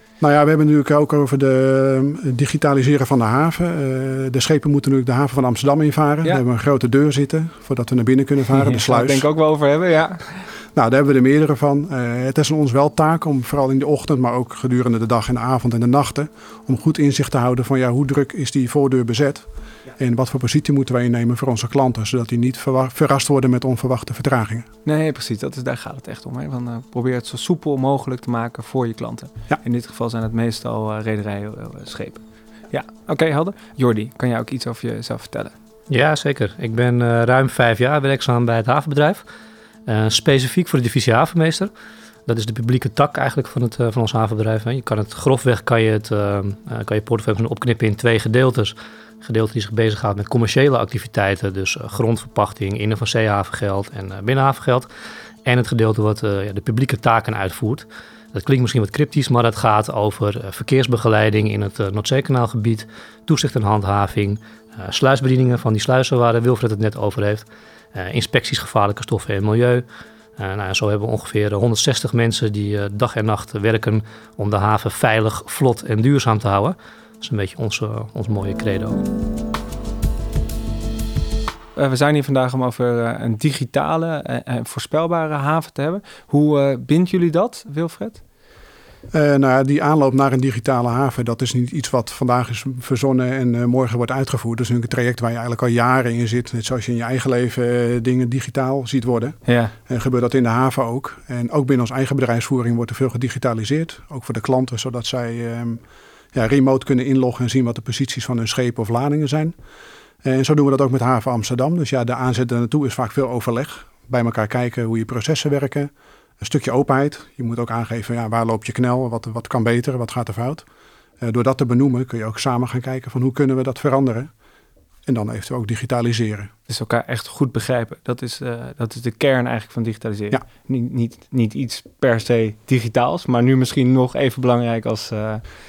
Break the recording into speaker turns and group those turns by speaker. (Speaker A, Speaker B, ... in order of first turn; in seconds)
Speaker A: 0.2-9.3, 10.7-24.7, 89.1-105.8, 106.3-109.5, 110.2-120.6, 121.2-124.3, 125.1-126.5
Speaker B: 8.5-10.5, 24.8-35.5, 81.8-88.2, 99.5-99.7, 126.7-135.4
Speaker C: 35.9-39.2, 39.9-41.7, 42.3-54.9, 55.4-69.8, 70.4-79.0